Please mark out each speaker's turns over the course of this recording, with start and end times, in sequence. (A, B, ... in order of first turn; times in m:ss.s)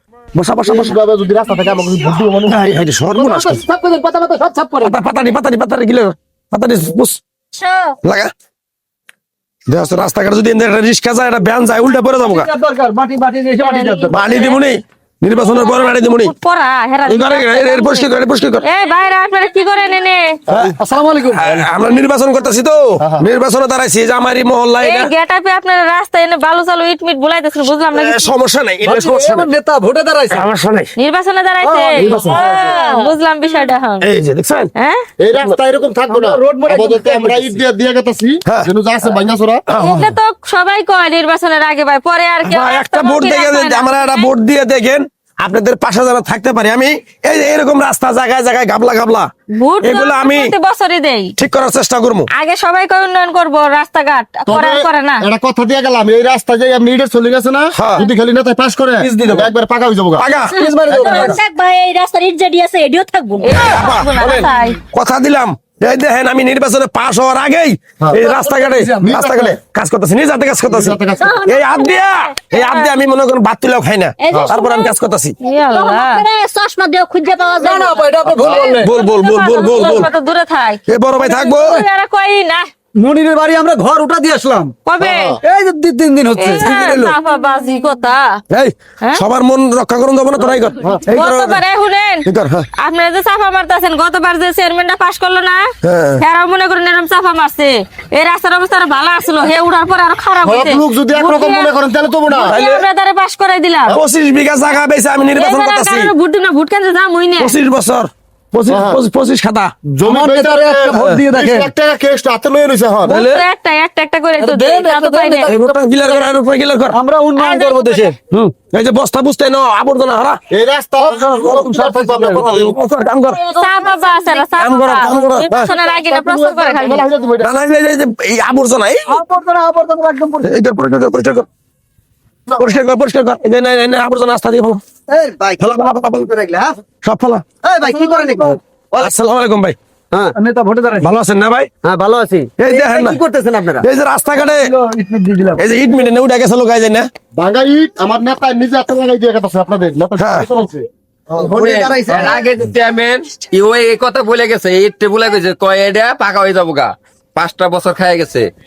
0:00.4-0:01.0 A
0:00.6-0:05.0 B
0:02.5-0:03.6 A
0:04.8-0:07.2 A
0:07.6-0:08.0 C
0:08.0-0:08.3 A
0:09.7-0:12.5 A
0:12.2-0:14.2 D
0:13.6-0:14.6 E
0:14.1-0:16.3 A
0:15.4-0:18.1 E
0:17.1-0:18.6 A
0:18.6-0:20.4 E
0:20.5-0:20.8 A
0:20.7-0:21.6 D
0:21.3-0:25.1 A
0:23.0-0:23.3 B
0:24.8-0:28.3 E
0:27.9-0:29.5 A
0:28.8-0:30.5 D
0:30.3-0:30.9 A
0:31.0-0:34.1 E
0:31.6-0:33.1 D
0:32.0-0:32.3 A
0:34.0-0:34.7 A
0:34.8-0:35.0 E
0:35.2-0:39.6 B
0:36.1-0:37.6 D
0:39.7-0:40.1 A
0:39.8-0:44.3 E
0:42.4-0:49.3 A
0:49.5-0:51.4 E
0:49.8-0:50.5 A
0:51.4-0:52.3 A
0:52.3-0:55.2 E
0:54.5-1:00.3 B
0:57.8-0:58.1 A
0:59.0-0:59.4 D
1:00.2-1:00.6 A
1:00.4-1:03.8 C
1:00.6-1:01.3 D
1:03.4-1:04.8 E
1:03.6-1:15.4 A
1:08.2-1:09.2 D
1:09.0-1:09.6 B
1:10.7-1:11.4 B
1:11.2-1:11.8 C
1:11.9-1:12.9 E
1:14.2-1:15.0 C
1:15.4-1:16.3 E
1:15.5-1:18.3 C
1:17.6-1:18.9 D
1:18.3-1:18.8 B
1:18.6-1:22.7 E
1:18.8-1:20.1 A
1:20.9-1:21.8 A
1:21.2-1:21.4 D
1:23.0-1:24.7 D
1:24.9-1:25.4 E
1:25.0-1:25.4 B
1:25.4-1:26.7 D
1:26.4-1:28.4 E
1:26.6-1:27.1 A
1:28.5-1:31.6 A
1:31.1-1:41.7 E
1:32.3-1:32.7 A
1:35.8-1:36.2 A
1:40.4-1:42.6 B
1:42.4-1:44.0 E
1:42.4-1:42.8 A
1:43.9-1:46.1 A
1:45.4-1:47.6 E
1:47.4-1:49.7 A
1:48.7-1:49.0 B
1:50.0-1:53.2 B
1:50.0-1:51.7 D
1:51.0-1:51.2 A
1:53.1-1:53.4 A
1:53.1-1:55.5 E
1:54.4-1:55.8 D
1:55.5-1:57.0 A
1:56.9-1:58.2 D
1:57.4-1:58.1 E
1:58.3-2:00.4 A
2:00.5-2:02.7 B
2:01.1-2:02.7 D
2:02.4-2:03.4 A
2:03.5-2:07.0 E
2:03.5-2:04.5 C
2:04.6-2:05.8 A
2:05.5-2:07.5 B
2:07.4-2:09.2 A
2:09.1-2:10.6 D
2:10.4-2:11.5 A
2:12.6-2:14.8 A
2:15.1-2:16.8 F
2:15.6-2:16.3 A
2:17.0-2:17.4 A
2:17.6-2:19.2 F
2:17.8-2:18.6 D
2:19.0-2:19.8 A
2:20.4-2:21.1 D
2:21.0-2:21.7 A
2:21.8-2:23.8 F
2:22.6-2:23.2 A
2:23.8-2:24.7 A
2:24.3-2:25.6 D
2:25.6-2:27.1 A
2:27.4-2:30.9 B
2:30.2-2:30.5 A
2:31.3-2:32.4 F
2:31.3-2:38.5 G